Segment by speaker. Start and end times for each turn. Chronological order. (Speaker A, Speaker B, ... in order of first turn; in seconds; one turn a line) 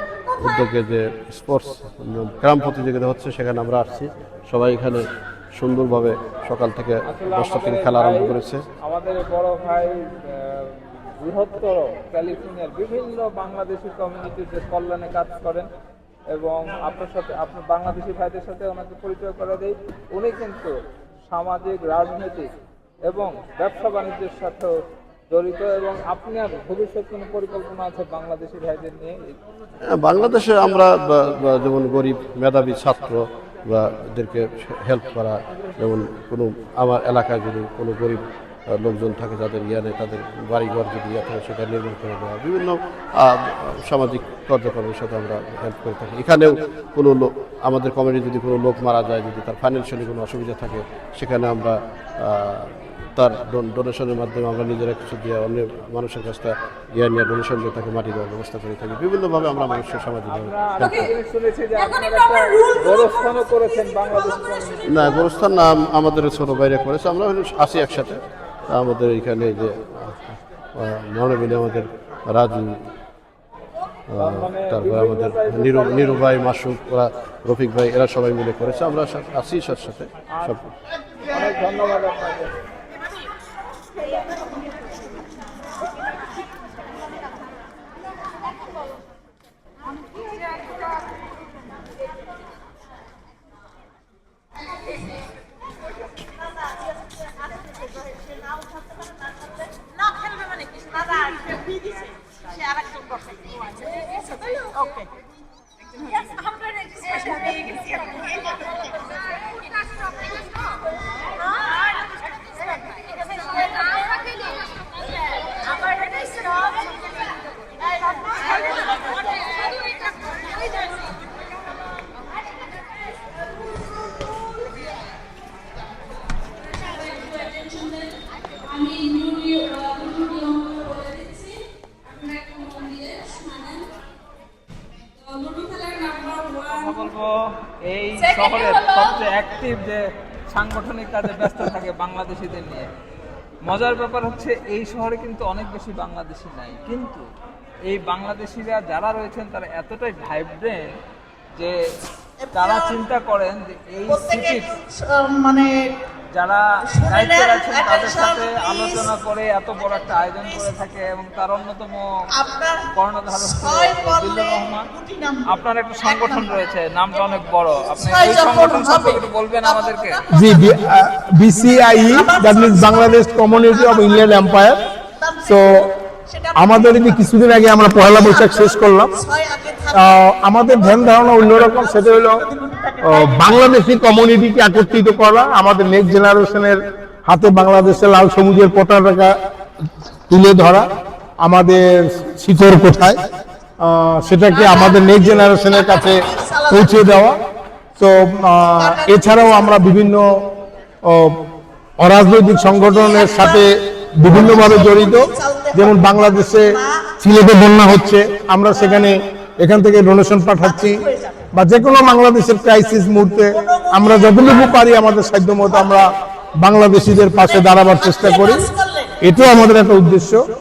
Speaker A: 0.4-8.6
Speaker B: 7.1-15.7
Speaker B: 16.3-20.8
Speaker B: 21.3-22.5
Speaker B: 23.1-24.8
Speaker B: 25.3-29.4
Speaker A: 29.9-61.1
Speaker B: 60.3-65.3
Speaker C: 60.8-61.1
Speaker C: 61.8-63.1
Speaker A: 64.9-72.9
Speaker A: 74.1-80.7
Speaker B: 74.2-76.3
Speaker B: 81.3-82.5
Speaker D: 96.2-105.3
Speaker D: 106.0-109.0
Speaker C: 107.1-107.7
Speaker D: 118.5-118.7
Speaker C: 126.6-133.9
Speaker C: 135.2-137.1
Speaker B: 136.7-142.9
Speaker C: 138.2-139.2
Speaker B: 143.7-147.3
Speaker B: 147.9-150.8
Speaker D: 152.4-153.0
Speaker B: 152.5-154.7
Speaker D: 154.1-155.7
Speaker B: 156.3-162.1
Speaker D: 156.9-159.1
Speaker D: 159.8-160.7
Speaker D: 162.3-165.5
Speaker B: 162.9-164.9
Speaker B: 165.5-170.2
Speaker D: 166.0-166.6
Speaker D: 167.9-170.8
Speaker E: 170.3-174.8
Speaker D: 172.0-177.2
Speaker E: 175.5-175.8
Speaker E: 176.6-179.1
Speaker D: 177.9-183.8
Speaker E: 179.9-182.4
Speaker E: 183.0-189.3
Speaker E: 190.3-190.9
Speaker E: 191.4-193.2
Speaker E: 193.8-197.4
Speaker D: 194.5-197.3
Speaker E: 198.0-200.3
Speaker D: 198.8-199.8
Speaker E: 201.1-201.4
Speaker E: 202.0-211.0
Speaker D: 202.7-203.7
Speaker D: 204.2-207.1
Speaker D: 208.8-209.1
Speaker D: 210.6-211.5
Speaker E: 211.5-216.1
Speaker D: 213.5-216.1
Speaker E: 216.6-218.7
Speaker D: 217.4-219.2
Speaker E: 219.2-220.4